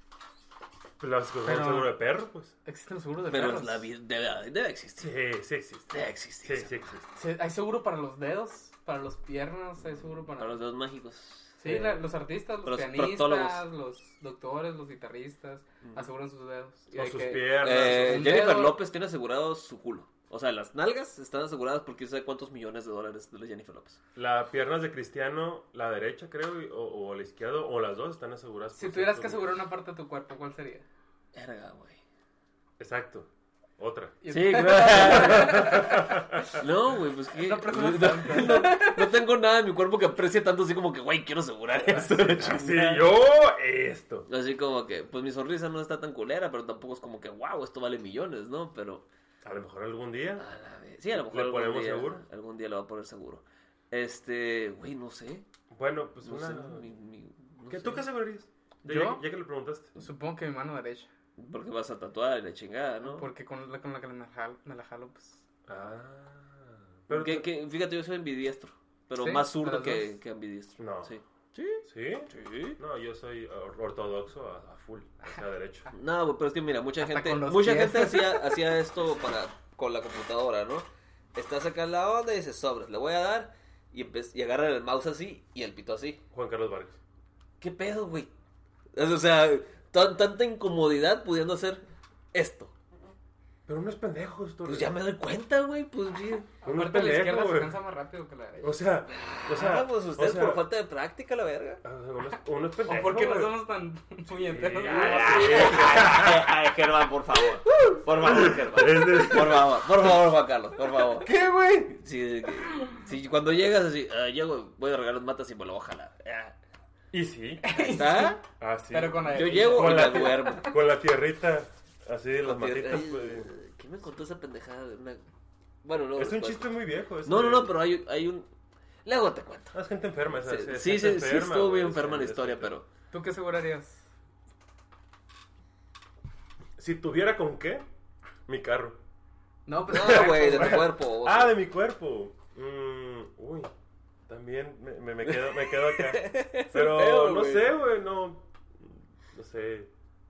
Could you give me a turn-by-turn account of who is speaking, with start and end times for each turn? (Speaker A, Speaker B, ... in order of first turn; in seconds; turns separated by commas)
Speaker A: 1.0-2.5, Speaker B: 1.4-1.9, Speaker B: 2.6-3.9, Speaker C: 3.3-5.1, Speaker A: 5.0-7.1, Speaker C: 5.9-6.7, Speaker B: 7.2-10.6, Speaker C: 10.4-11.6, Speaker B: 11.6-18.8, Speaker A: 11.7-12.0, Speaker C: 12.7-13.6, Speaker A: 16.9-18.4, Speaker C: 17.6-24.0, Speaker A: 24.2-29.6, Speaker B: 28.8-30.9, Speaker C: 31.4-32.0, Speaker A: 32.8-36.6, Speaker B: 34.2-36.4, Speaker C: 34.3-43.1, Speaker B: 37.4-39.1, Speaker A: 42.3-44.3, Speaker C: 44.3-49.1, Speaker A: 49.4-50.5, Speaker C: 50.4-55.5, Speaker A: 51.1-52.2, Speaker A: 55.7-56.9, Speaker C: 56.2-58.0, Speaker A: 57.7-59.9, Speaker B: 58.9-59.2, Speaker B: 60.0-61.1, Speaker C: 61.4-63.3, Speaker B: 63.1-65.4, Speaker A: 65.7-67.5, Speaker C: 67.1-72.8, Speaker B: 69.2-70.1, Speaker A: 70.8-71.1, Speaker A: 71.9-75.9, Speaker C: 75.9-86.2, Speaker B: 77.0-78.6, Speaker A: 86.3-87.0, Speaker C: 87.6-88.3, Speaker C: 89.0-92.7, Speaker A: 93.7-94.9, Speaker C: 94.7-96.5, Speaker A: 96.6-97.8, Speaker B: 96.6-98.8, Speaker A: 98.6-100.6, Speaker C: 99.3-101.8, Speaker A: 101.8-103.5, Speaker B: 102.9-106.1, Speaker A: 104.3-106.5, Speaker C: 104.7-111.3, Speaker A: 107.8-110.1, Speaker A: 111.1-112.0, Speaker C: 111.9-116.5, Speaker A: 117.1-117.7, Speaker B: 117.6-120.7, Speaker C: 117.7-118.4, Speaker A: 118.6-123.5, Speaker C: 119.3-120.7, Speaker C: 122.4-125.2, Speaker C: 125.8-126.7, Speaker A: 126.2-127.8, Speaker C: 127.2-128.5, Speaker C: 129.1-129.8, Speaker A: 129.7-132.7, Speaker C: 130.4-132.9, Speaker B: 133.1-134.0, Speaker A: 136.8-137.9, Speaker A: 138.5-139.0, Speaker B: 139.7-140.9, Speaker C: 139.9-141.6, Speaker A: 139.9-143.7, Speaker A: 144.3-149.9, Speaker C: 145.3-147.7